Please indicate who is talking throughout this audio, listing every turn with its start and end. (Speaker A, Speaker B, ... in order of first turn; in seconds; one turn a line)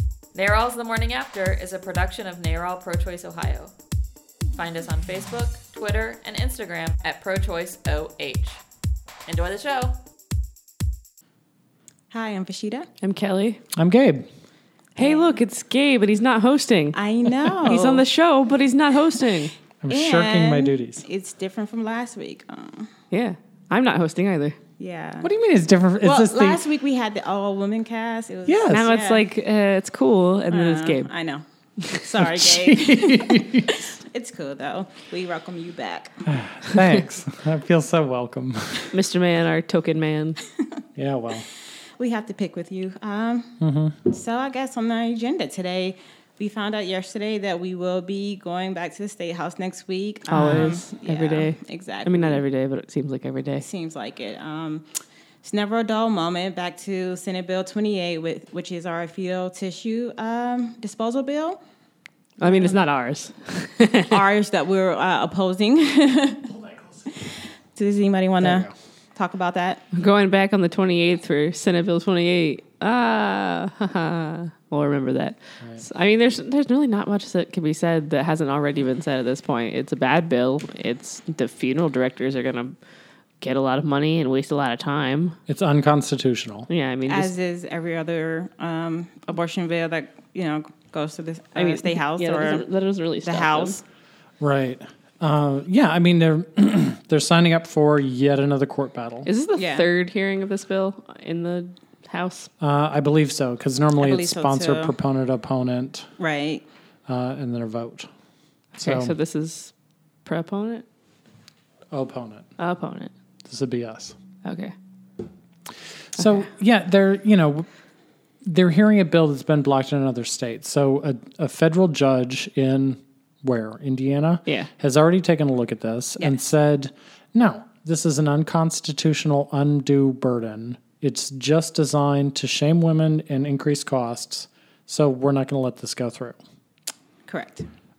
Speaker A: 0.3-3.7
Speaker A: 4.5-8.6
Speaker A: 9.3-10.0
Speaker B: 12.1-12.9
Speaker C: 13.0-13.6
Speaker D: 13.7-14.2
Speaker C: 14.9-19.5
Speaker B: 15.0-15.3
Speaker B: 16.9-18.0
Speaker D: 19.8-21.0
Speaker B: 19.9-22.9
Speaker C: 23.1-24.6
Speaker B: 24.8-25.3
Speaker D: 25.2-26.6
Speaker B: 26.0-29.2
Speaker D: 28.4-29.0
Speaker C: 28.7-31.1
Speaker B: 30.5-36.1
Speaker D: 32.2-33.9
Speaker D: 36.2-39.0
Speaker C: 38.9-40.4
Speaker D: 41.0-41.5
Speaker B: 42.0-43.5
Speaker D: 43.6-44.0
Speaker B: 44.0-52.4
Speaker C: 50.3-53.6
Speaker D: 50.3-50.8
Speaker B: 53.6-54.9
Speaker B: 55.4-61.6
Speaker C: 62.4-64.2
Speaker B: 62.4-62.8
Speaker B: 64.0-66.5
Speaker B: 67.1-69.8
Speaker D: 68.4-68.7
Speaker C: 69.9-82.8
Speaker C: 83.4-85.4
Speaker D: 85.5-86.7
Speaker C: 86.7-87.3
Speaker B: 87.1-92.6
Speaker C: 91.5-93.8
Speaker B: 93.2-93.8
Speaker D: 94.4-99.3
Speaker C: 99.2-102.5
Speaker B: 99.5-99.8
Speaker D: 102.6-106.1
Speaker B: 104.0-104.9
Speaker B: 106.2-106.6
Speaker D: 107.1-108.1
Speaker D: 108.8-109.1
Speaker C: 108.8-109.7
Speaker C: 110.2-110.8
Speaker D: 111.9-112.5
Speaker C: 112.6-113.1
Speaker D: 113.5-114.1
Speaker C: 114.4-114.7
Speaker D: 116.1-117.7
Speaker D: 118.4-136.4
Speaker B: 137.3-137.7